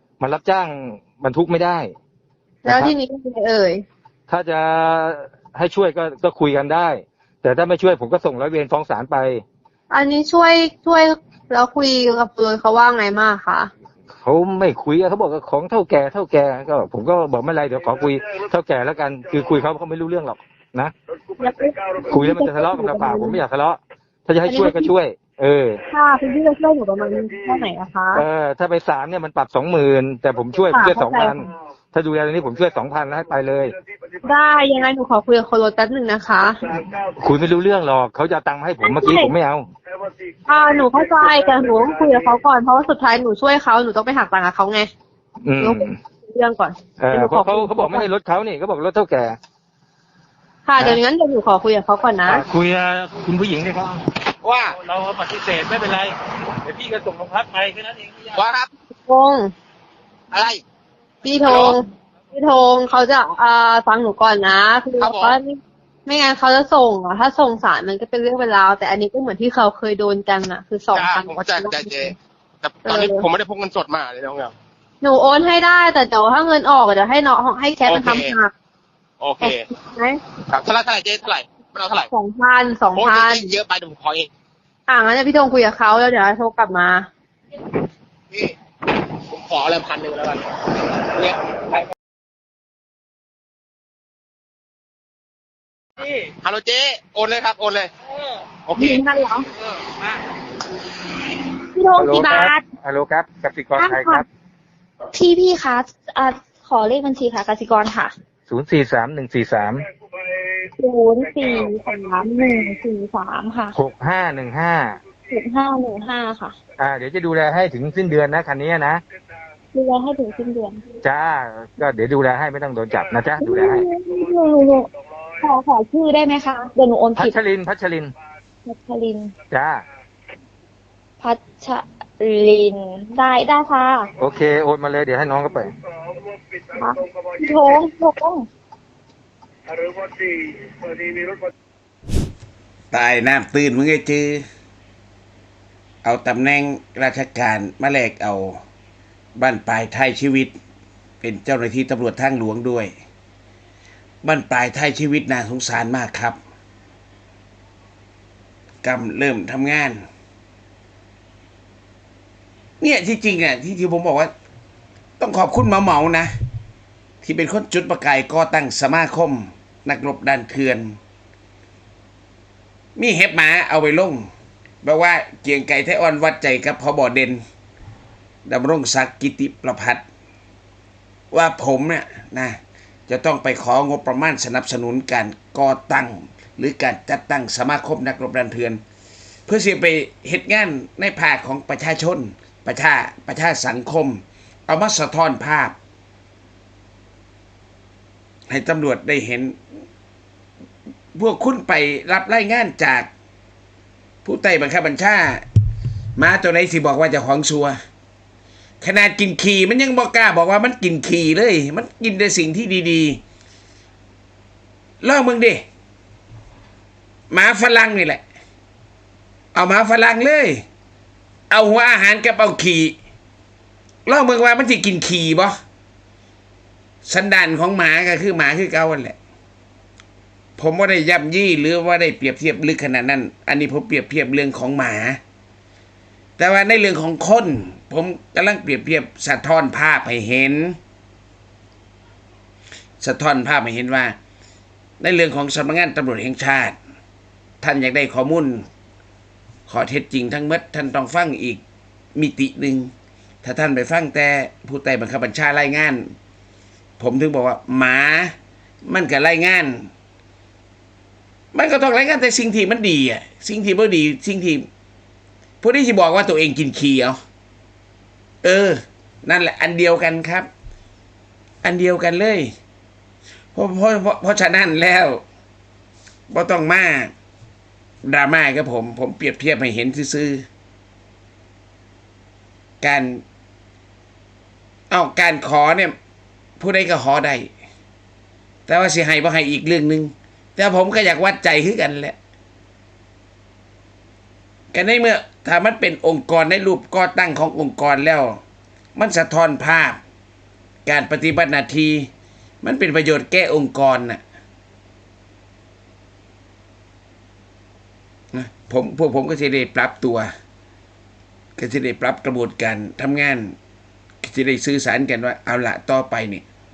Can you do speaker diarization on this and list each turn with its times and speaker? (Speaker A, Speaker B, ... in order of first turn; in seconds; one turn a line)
Speaker A: 0.2-1.9
Speaker B: 2.6-3.8
Speaker A: 2.6-2.9
Speaker A: 4.3-9.4
Speaker B: 9.9-13.7
Speaker A: 14.2-20.9
Speaker B: 21.4-23.4
Speaker A: 22.1-25.8
Speaker B: 24.4-24.9
Speaker B: 25.9-28.2
Speaker A: 28.1-33.7
Speaker B: 30.7-31.5
Speaker B: 34.2-36.8
Speaker A: 37.1-39.7
Speaker B: 38.8-39.3
Speaker B: 40.5-44.9
Speaker A: 45.4-46.0
Speaker B: 45.6-48.1
Speaker A: 47.0-49.4
Speaker B: 50.6-52.4
Speaker A: 52.2-54.0
Speaker C: 54.4-54.7
Speaker A: 54.8-56.1
Speaker A: 56.6-58.1
Speaker C: 58.3-58.7
Speaker B: 59.0-59.5
Speaker C: 60.3-60.6
Speaker B: 61.2-72.1
Speaker C: 61.5-61.7
Speaker C: 65.0-65.4
Speaker C: 70.9-74.5
Speaker B: 72.8-73.3
Speaker B: 75.0-78.5
Speaker C: 77.8-78.4
Speaker C: 79.2-79.6
Speaker B: 79.4-80.2
Speaker C: 80.5-82.1
Speaker B: 82.1-83.5
Speaker C: 83.0-84.3
Speaker B: 84.9-87.1
Speaker C: 89.3-91.8
Speaker C: 96.1-97.9
Speaker C: 98.7-99.0
Speaker D: 98.8-99.5
Speaker C: 99.6-99.9
Speaker D: 101.7-102.6
Speaker A: 102.0-104.2
Speaker D: 103.8-104.2
Speaker D: 105.1-108.1
Speaker A: 108.5-109.8
Speaker D: 110.8-113.7
Speaker B: 111.2-112.3
Speaker A: 113.7-115.0
Speaker D: 115.3-116.6
Speaker A: 116.8-119.0
Speaker D: 119.7-120.8
Speaker A: 121.0-123.8
Speaker D: 123.4-124.9
Speaker D: 125.4-127.4
Speaker A: 127.2-128.1
Speaker D: 128.6-129.3
Speaker A: 129.5-129.8
Speaker D: 131.2-134.1
Speaker A: 134.2-135.7
Speaker D: 136.8-138.5
Speaker E: 142.9-144.4
Speaker E: 146.0-148.6
Speaker E: 149.4-150.5
Speaker E: 151.2-152.9
Speaker E: 154.2-156.4
Speaker E: 158.8-160.0
Speaker E: 162.8-164.3
Speaker E: 165.2-166.3
Speaker E: 167.2-171.0
Speaker E: 172.9-174.3
Speaker E: 174.8-177.4
Speaker E: 178.4-180.0
Speaker E: 181.3-188.8
Speaker E: 189.5-195.7
Speaker E: 198.5-199.6
Speaker E: 201.1-203.1
Speaker E: 204.2-205.4
Speaker E: 206.2-207.8
Speaker E: 208.8-213.2
Speaker E: 215.0-215.6
Speaker E: 217.3-218.2
Speaker E: 219.5-220.6
Speaker E: 221.5-222.9
Speaker E: 224.1-225.6
Speaker E: 227.0-229.2
Speaker E: 230.6-235.2
Speaker E: 236.4-240.8
Speaker E: 243.0-244.1
Speaker E: 245.0-246.8
Speaker E: 247.6-248.6
Speaker E: 249.7-251.6
Speaker E: 252.2-252.9
Speaker E: 253.4-256.1
Speaker E: 257.0-258.3
Speaker E: 258.9-259.9
Speaker E: 261.5-264.6
Speaker E: 265.6-267.2
Speaker E: 268.4-270.5
Speaker E: 271.6-272.5
Speaker E: 273.5-275.2
Speaker E: 276.3-277.1
Speaker E: 278.0-280.4
Speaker E: 282.8-283.2
Speaker E: 284.9-285.9
Speaker E: 286.6-287.5
Speaker E: 288.7-292.1
Speaker E: 294.7-298.4
Speaker E: 298.9-300.0
Speaker E: 300.9-302.1
Speaker E: 302.6-304.2
Speaker E: 308.3-310.3
Speaker E: 311.6-313.6
Speaker E: 314.2-316.4